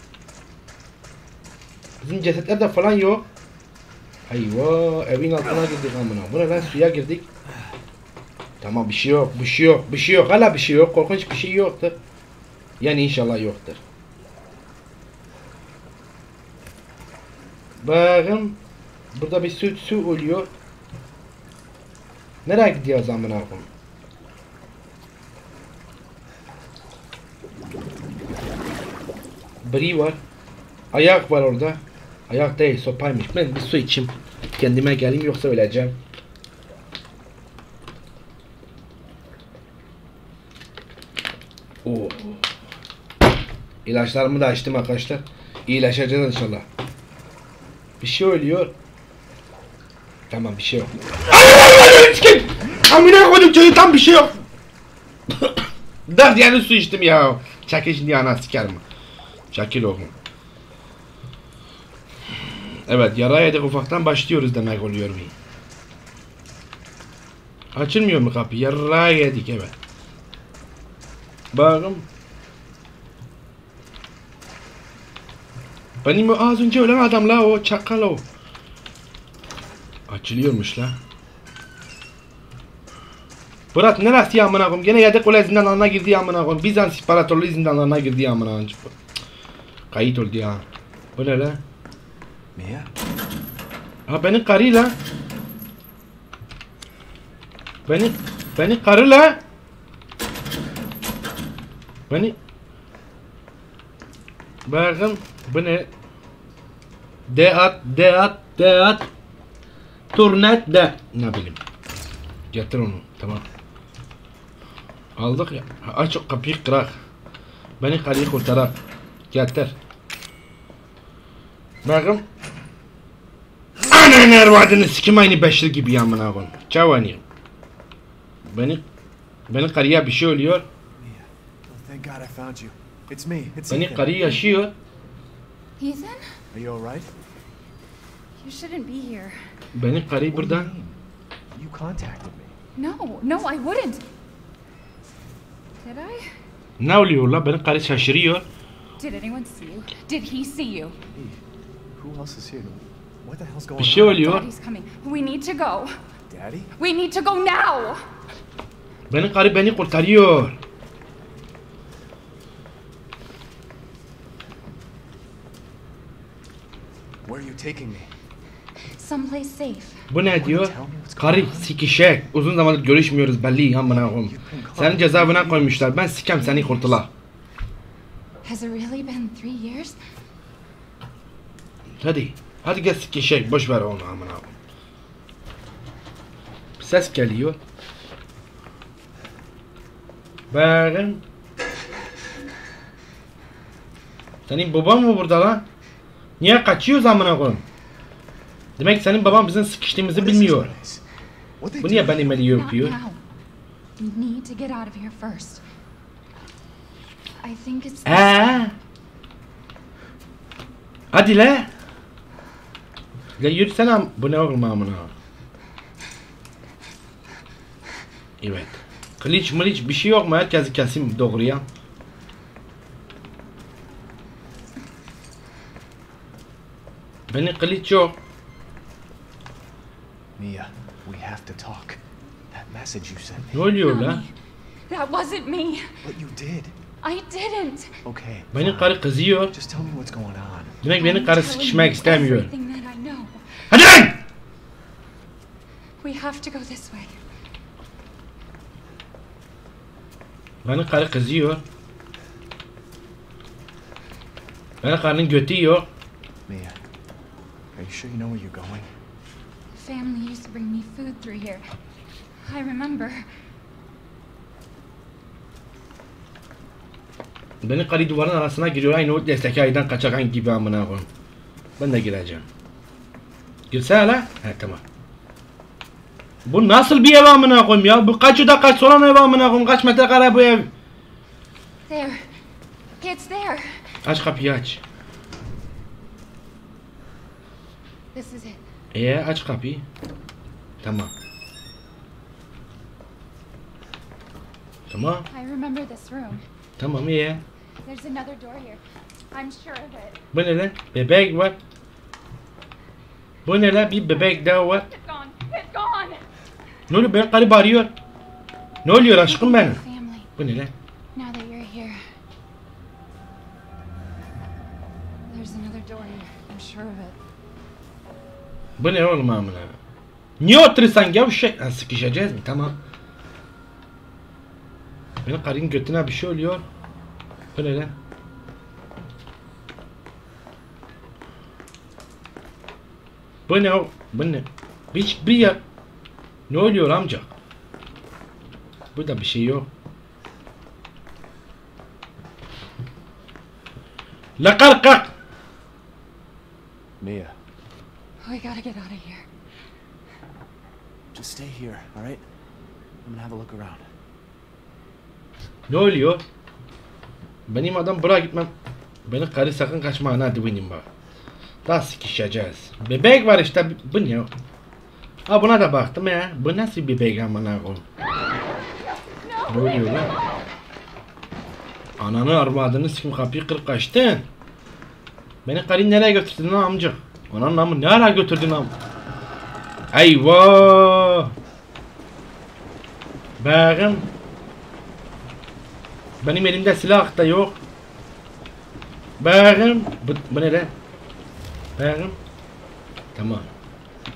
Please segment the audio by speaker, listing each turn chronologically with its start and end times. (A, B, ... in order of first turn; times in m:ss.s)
0:02.0-0:03.3 A
0:04.3-0:07.3 A
0:08.6-0:12.0 A
0:12.8-0:13.8 A
0:17.8-0:18.6 A
0:19.1-0:20.5 A
0:22.4-0:23.7 A
0:29.6-0:30.2 A
0:30.9-0:36.0 A
0:41.8-0:42.4 A
0:43.8-0:46.7 A
0:48.0-0:48.7 A
0:50.3-0:54.4 A
0:55.4-0:58.8 A
0:59.5-1:00.1 A
1:02.9-1:05.3 A
1:07.8-1:09.7 A
1:11.5-1:12.1 A
1:16.0-1:18.2 A
1:20.1-1:21.0 A
1:23.7-1:28.9 A
1:29.9-1:30.6 A
1:31.2-1:31.6 A
1:32.6-1:32.9 B
1:34.1-1:35.0 A
1:37.9-1:39.4 A
1:42.1-1:42.4 A
1:44.7-1:45.9 A
1:47.3-1:49.1 A
1:50.1-1:51.6 A
1:52.5-1:53.4 A
1:55.2-1:57.0 A
1:57.8-1:58.8 A
1:59.3-1:59.8 A
2:01.8-2:02.2 A
2:03.9-2:07.2 A
2:08.5-2:08.8 A
2:09.5-2:10.7 A
2:11.0-2:14.4 B
2:13.7-2:14.7 A
2:15.8-2:16.2 C
2:16.5-2:17.1 B
2:18.4-2:19.4 C
2:19.8-2:20.7 A
2:20.3-2:21.0 B
2:21.5-2:22.6 B
2:22.8-2:24.0 C
2:25.8-2:26.2 C
2:26.8-2:28.4 A
2:29.0-2:31.0 C
2:31.1-2:31.4 B
2:32.0-2:34.4 B
2:33.8-2:34.5 A
2:34.2-2:35.9 C
2:36.3-2:36.7 B
2:36.8-2:38.0 C
2:39.1-2:40.6 A
2:47.2-2:48.1 B
2:49.0-2:50.0 C
2:50.1-2:57.1 A
2:50.3-2:51.8 B
2:53.8-2:56.2 B
2:56.4-2:57.0 C
2:58.4-3:00.0 C
3:02.0-3:04.6 A
3:06.8-3:07.6 A
3:10.5-3:11.2 A
3:14.5-3:15.7 A
3:16.4-3:17.6 A
3:18.8-3:20.7 A
3:20.1-3:21.0 B
3:21.6-3:22.5 B
3:21.8-3:23.0 A
3:22.4-3:23.2 C
3:24.0-3:25.6 C
3:27.4-3:28.5 C
3:28.1-3:28.7 A
3:31.1-3:31.7 A
3:33.4-3:35.1 A
3:38.4-3:41.6 A
3:47.3-3:48.2 A
3:50.4-3:52.0 B
3:52.5-3:53.5 B
3:53.5-3:54.2 A
3:53.7-3:54.3 C
3:54.9-3:55.8 C
3:56.0-3:56.7 B
3:57.0-3:57.9 C
3:58.0-4:00.8 B
3:58.5-3:59.6 A
4:00.8-4:02.5 A
4:00.8-4:03.4 C
4:03.7-4:04.2 A
4:06.0-4:07.2 C
4:10.6-4:11.6 A
4:14.8-4:15.9 A
4:16.5-4:16.8 B
4:17.7-4:18.9 B
4:19.8-4:21.6 C
4:22.4-4:23.2 C
4:27.6-4:31.1 A
4:31.8-4:32.4 A
4:33.7-4:34.8 A
4:36.5-4:40.7 A
4:41.9-4:42.2 C
4:43.0-4:43.7 C
4:44.0-4:44.8 A
4:48.1-4:48.6 C
4:48.9-4:49.8 A
4:50.8-4:51.1 A
4:54.9-4:55.3 A
4:55.0-4:56.4 C
4:56.8-4:57.4 A
4:57.8-4:58.8 C
4:59.3-5:00.2 C
5:00.3-5:01.6 A
5:03.5-5:04.9 A
5:03.8-5:06.2 C
5:06.9-5:07.9 A
5:08.8-5:09.8 A
5:09.1-5:10.3 C
5:10.4-5:10.7 A
5:11.2-5:12.0 C
5:15.3-5:17.2 C
5:18.8-5:19.7 A
5:20.4-5:22.8 A
5:25.2-5:26.6 A
5:27.6-5:27.9 A
5:33.5-5:35.6 A
5:36.5-5:37.3 A
5:38.9-5:39.7 A
5:44.4-5:45.1 A
5:47.0-5:47.4 B
5:48.2-5:49.2 C
5:51.1-5:52.2 B
5:53.0-5:53.9 B
5:55.7-5:56.2 A
5:57.5-5:58.5 A
5:59.1-6:00.9 A
6:01.6-6:04.3 A
6:05.3-6:07.8 A
6:09.1-6:10.1 C
6:09.5-6:10.1 A
6:12.0-6:14.3 A
6:15.4-6:18.7 A
6:19.9-6:21.3 A
6:23.4-6:24.1 A
6:26.2-6:27.6 A
6:29.2-6:30.7 A
6:31.8-6:32.2 A
6:33.2-6:33.5 A